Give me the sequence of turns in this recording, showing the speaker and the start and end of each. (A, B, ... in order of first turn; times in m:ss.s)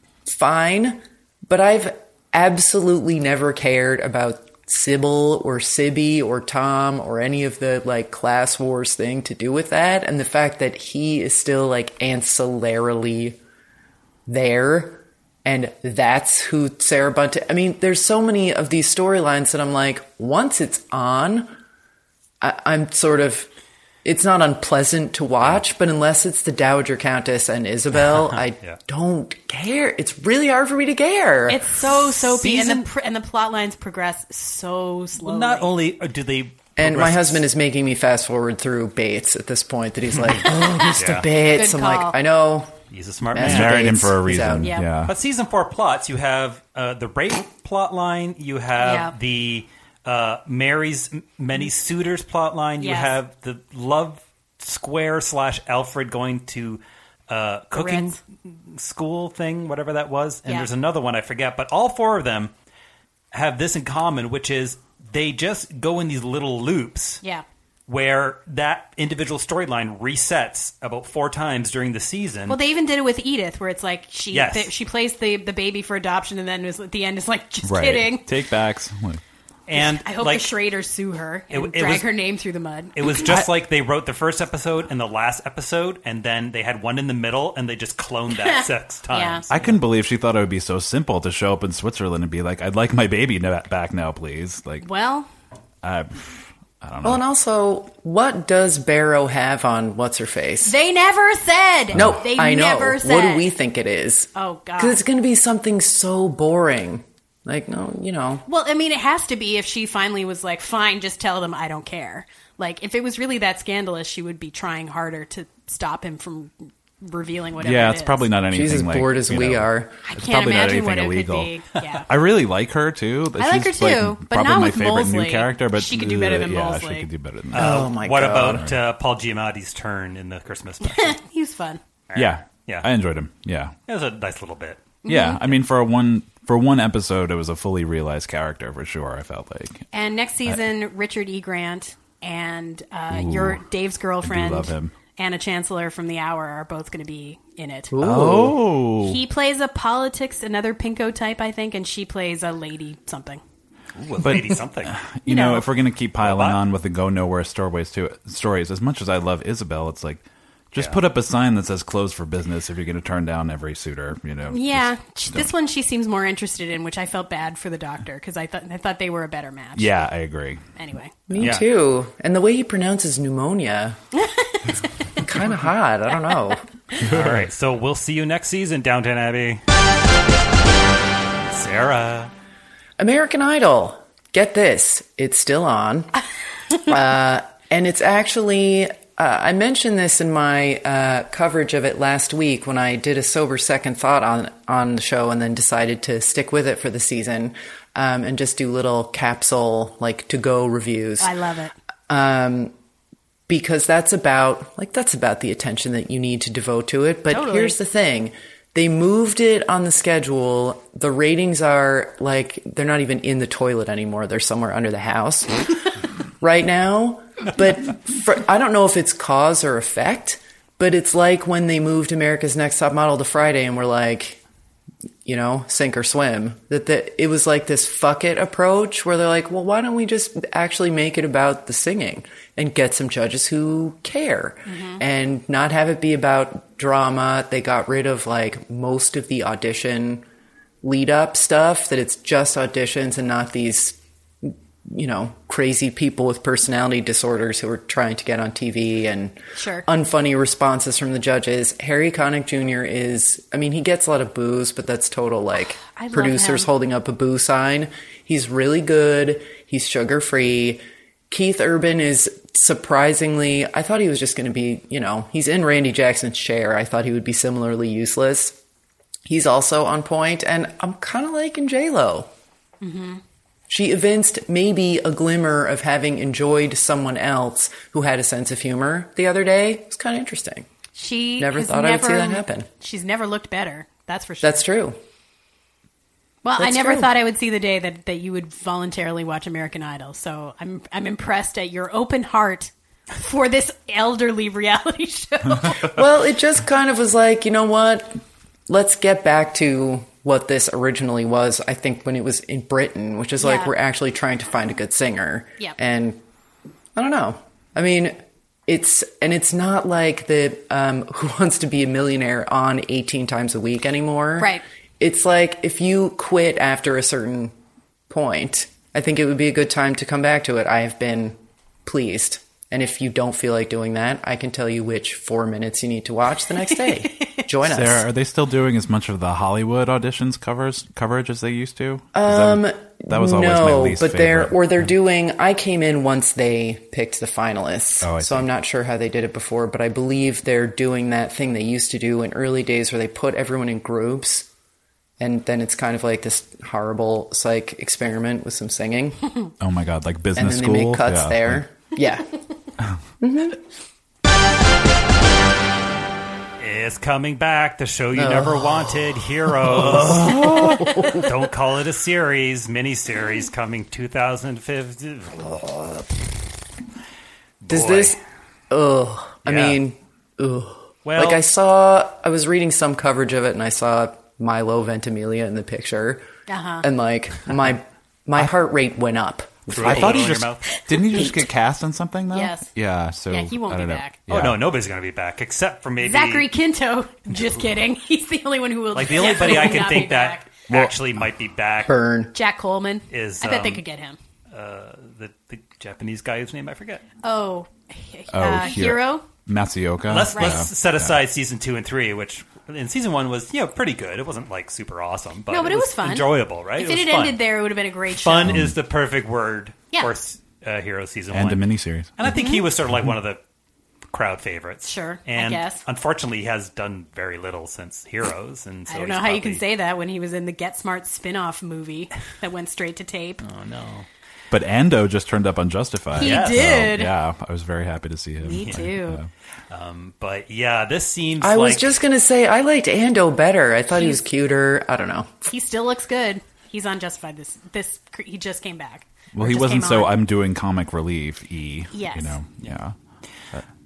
0:00.3-0:13.4 A
0:14.3-0:21.5 A
0:22.4-0:23.5 A
0:24.0-0:32.1 A
0:28.1-0:28.8 B
0:31.5-0:35.7 C
0:32.3-0:32.8 B
0:35.2-0:37.5 B
0:36.8-0:42.7 A
0:41.0-0:41.3 B
0:41.5-0:42.2 C
0:42.9-0:43.9 B
0:43.3-0:44.7 A
0:43.4-0:45.1 D
0:44.6-0:44.9 C
0:45.1-1:02.5 B
0:48.8-0:49.1 C
0:52.8-0:53.2 C
0:57.7-0:58.2 C
1:03.3-1:07.2 B
1:07.9-1:12.6 B
1:12.5-1:18.3 C
1:14.3-1:14.7 B
1:17.6-1:19.2 D
1:19.7-1:20.5 B
1:19.7-1:23.2 C
1:21.5-1:22.1 B
1:23.0-1:29.8 B
1:23.2-1:23.5 D
1:28.4-1:29.4 C
1:29.5-1:34.9 D
1:34.8-1:35.3 C
1:35.8-1:37.2 D
1:37.0-1:40.7 A
1:40.6-1:43.5 C
1:41.9-1:42.2 D
1:41.9-1:48.4 A
1:44.4-1:45.0 C
1:48.5-1:58.3 C
1:57.6-2:01.5 D
1:58.5-2:00.0 A
2:00.0-2:02.1 C
2:02.1-2:07.8 D
2:03.4-2:07.1 C
2:07.5-2:08.6 A
2:07.5-2:11.2 B
2:08.5-2:08.8 D
2:10.8-2:11.8 C
2:12.1-2:12.9 B
2:12.2-2:13.8 D
2:13.9-2:14.9 B
2:15.0-2:15.5 C
2:15.1-2:19.9 D
2:19.9-2:27.9 C
2:23.1-2:23.6 D
2:24.2-2:24.9 D
2:27.9-2:28.7 A
2:28.0-2:29.2 D
2:29.0-2:33.4 C
2:34.0-2:35.0 B
2:34.2-2:45.5 D
2:35.3-2:35.7 C
2:36.2-2:36.6 B
2:40.8-2:41.0 B
2:44.5-2:49.9 C
2:49.8-2:50.7 D
2:50.8-2:51.2 C
2:51.3-2:54.0 A
2:51.4-2:51.6 D
2:51.4-2:51.7 B
2:54.2-2:54.7 C
2:55.2-2:56.6 A
2:57.0-2:57.5 D
2:57.0-2:59.6 B
3:01.5-3:02.3 B
3:03.0-3:06.1 A
3:06.7-3:21.3 A
3:21.2-3:21.7 C
3:22.1-3:22.7 A
3:23.5-3:35.7 A
3:27.3-3:27.8 C
3:36.4-3:44.4 A
3:45.2-4:00.2 A
3:54.7-3:55.0 C
4:00.8-4:28.6 A
4:09.6-4:09.9 C
4:15.9-4:16.7 C
4:29.3-4:32.3 A
4:32.8-4:33.2 C
4:33.7-4:40.7 A
4:41.0-4:44.6 C
4:41.4-4:42.7 A
4:44.4-4:45.0 A
4:46.4-4:56.0 C
4:46.6-4:47.1 A
4:55.8-5:06.2 A
5:03.4-5:03.7 C
5:07.0-5:17.5 A
5:18.1-5:28.1 A
5:27.2-5:27.4 C
5:27.6-5:34.9 D
5:32.2-5:44.5 A
5:38.0-5:38.5 D
5:45.2-5:49.3 A
5:49.6-5:51.6 D
5:50.4-5:52.4 A
5:53.2-5:53.6 A
5:56.6-6:06.0 B
5:58.2-6:01.3 A
6:00.1-6:00.8 D
6:07.6-6:08.2 B
6:07.7-6:08.2 A
6:08.7-6:16.2 A
6:09.4-6:09.8 B
6:11.0-6:11.4 B
6:16.5-6:16.9 C
6:16.8-6:20.2 A
6:19.7-6:20.7 B
6:19.7-6:24.6 D
6:22.3-6:22.7 C
6:23.3-6:24.2 C
6:24.3-6:26.5 B
6:26.0-6:30.5 C
6:28.9-6:31.9 B
6:30.7-6:31.0 D
6:31.8-6:32.3 A
6:32.3-6:34.2 C
6:33.1-6:33.8 B
6:34.5-6:37.0 B
6:37.2-6:39.2 C
6:38.3-6:41.2 D
6:40.1-6:47.4 B
6:40.3-6:40.7 C
6:45.5-6:48.6 C
6:48.1-6:53.4 B
6:48.4-6:48.8 D
6:51.3-6:52.1 D
6:52.2-6:52.7 C
6:54.1-6:59.6 B
6:54.8-6:55.8 C
6:58.9-7:03.4 C
7:03.4-7:04.1 B
7:04.5-7:09.3 D
7:06.2-7:06.8 B
7:06.2-7:07.1 C
7:08.4-7:09.2 C
7:09.7-7:12.0 B
7:11.4-7:15.4 A
7:13.9-7:14.2 C
7:15.5-7:20.1 C
7:19.3-7:23.0 D
7:21.9-7:22.4 C